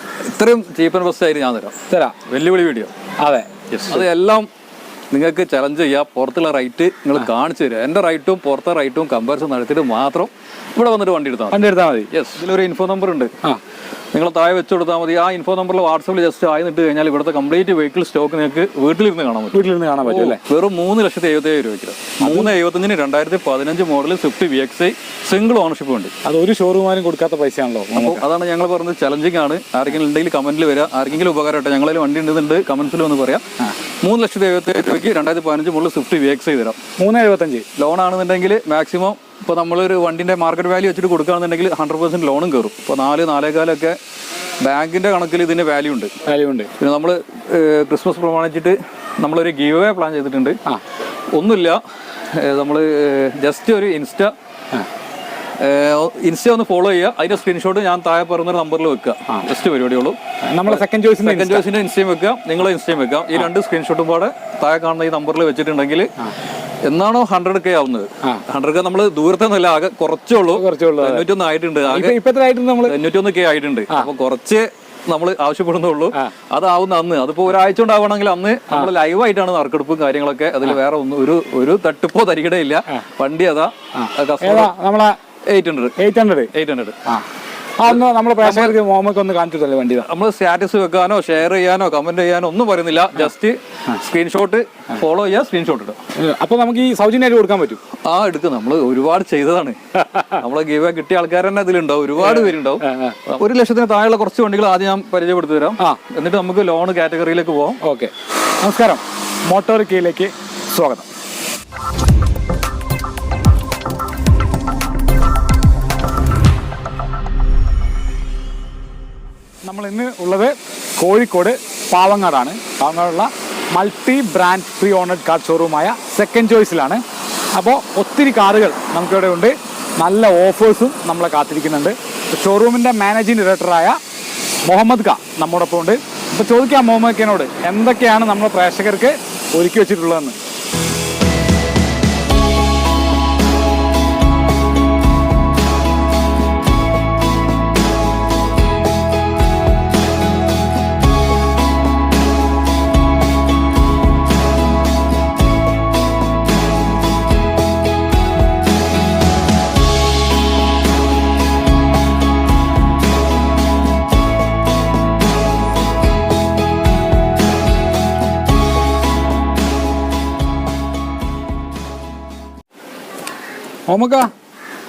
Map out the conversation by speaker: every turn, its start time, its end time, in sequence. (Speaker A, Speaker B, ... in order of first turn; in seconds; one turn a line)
Speaker A: 0.2-2.9
Speaker B: 1.9-2.2
Speaker B: 3.2-4.0
Speaker A: 3.7-4.5
Speaker A: 5.1-13.3
Speaker B: 11.5-12.1
Speaker A: 14.1-26.1
Speaker B: 19.5-20.4
Speaker B: 22.2-22.5
Speaker B: 26.2-28.2
Speaker A: 27.9-33.5
Speaker A: 34.0-36.8
Speaker B: 37.0-37.7
Speaker A: 37.8-44.0
Speaker A: 44.6-46.1
Speaker B: 46.3-46.7
Speaker A: 46.8-50.6
Speaker A: 51.3-54.3
Speaker A: 55.6-66.1
Speaker B: 60.5-61.7
Speaker A: 66.8-72.2
Speaker B: 70.5-71.3
Speaker B: 71.8-73.0
Speaker A: 72.9-84.7
Speaker B: 83.9-85.2
Speaker A: 85.5-86.0
Speaker B: 86.0-86.5
Speaker A: 86.5-87.0
Speaker B: 87.8-90.1
Speaker A: 88.4-88.8
Speaker A: 90.1-96.0
Speaker B: 96.2-97.8
Speaker A: 98.0-107.8
Speaker B: 100.0-100.4
Speaker B: 102.2-103.2
Speaker B: 107.8-111.1
Speaker B: 119.6-127.0
Speaker B: 127.5-134.0
Speaker B: 134.7-140.4
Speaker B: 173.9-174.3